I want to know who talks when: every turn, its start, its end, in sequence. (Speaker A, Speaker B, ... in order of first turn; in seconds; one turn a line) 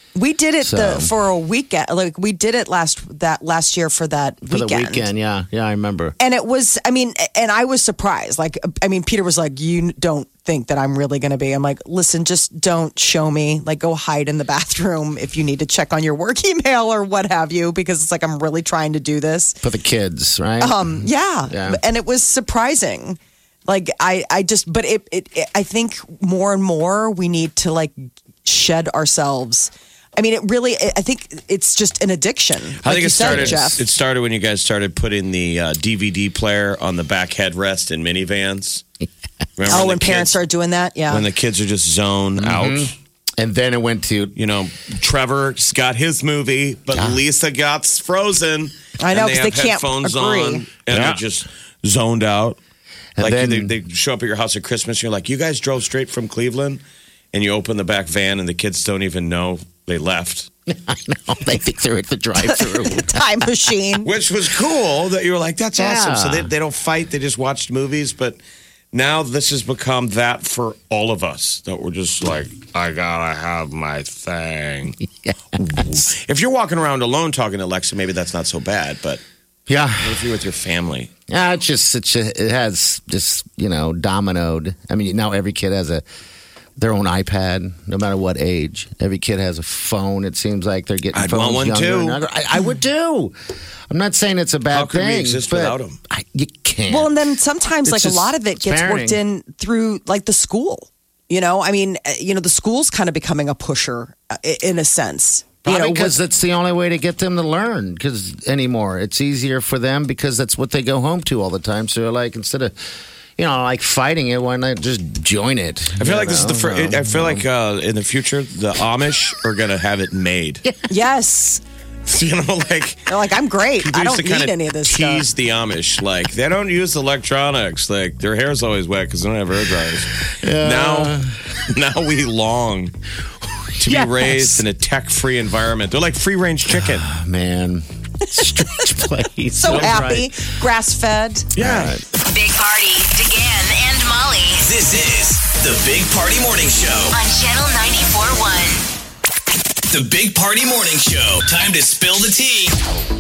Speaker A: 0.1-5.1
Speaker B: 0.6-1.1
Speaker B: 4.5-6.2
Speaker A: 6.2-19.6
Speaker B: 19.6-21.8
Speaker A: 20.6-33.8
Speaker C: 32.8-38.8
Speaker B: 33.2-33.8
Speaker C: 39.6-40.3
Speaker A: 39.7-41.3
Speaker C: 41.1-42.9
Speaker B: 42.4-44.4
Speaker C: 44.4-52.6
Speaker B: 46.9-47.2
Speaker A: 49.0-50.7
Speaker B: 50.9-51.2
Speaker B: 53.2-53.8
Speaker C: 53.2-56.8
Speaker C: 57.3-60.5
Speaker B: 60.7-63.4
Speaker A: 62.4-64.1
Speaker C: 64.0-68.4
Speaker B: 65.8-66.5
Speaker C: 68.9-75.0
Speaker B: 75.3-75.6
Speaker C: 75.6-79.2
Speaker B: 79.7-80.2
Speaker C: 80.0-81.1
Speaker B: 81.3-86.0
Speaker B: 86.8-93.4
Speaker C: 91.1-92.2
Speaker B: 93.9-97.2
Speaker C: 94.7-96.0
Speaker A: 96.9-106.2
Speaker B: 97.9-99.2
Speaker B: 105.7-112.7
Speaker B: 113.4-117.5
Speaker C: 116.0-120.6
Speaker A: 120.9-121.6
Speaker C: 122.1-123.1
Speaker A: 123.1-125.3
Speaker C: 123.8-132.9
Speaker B: 130.4-131.3
Speaker C: 133.8-137.1
Speaker B: 133.8-134.6
Speaker B: 136.8-140.4
Speaker A: 139.6-141.5
Speaker C: 141.6-142.0
Speaker B: 141.6-142.0
Speaker D: 142.2-144.7
Speaker E: 144.6-147.1
Speaker D: 147.1-148.8
Speaker E: 149.9-152.7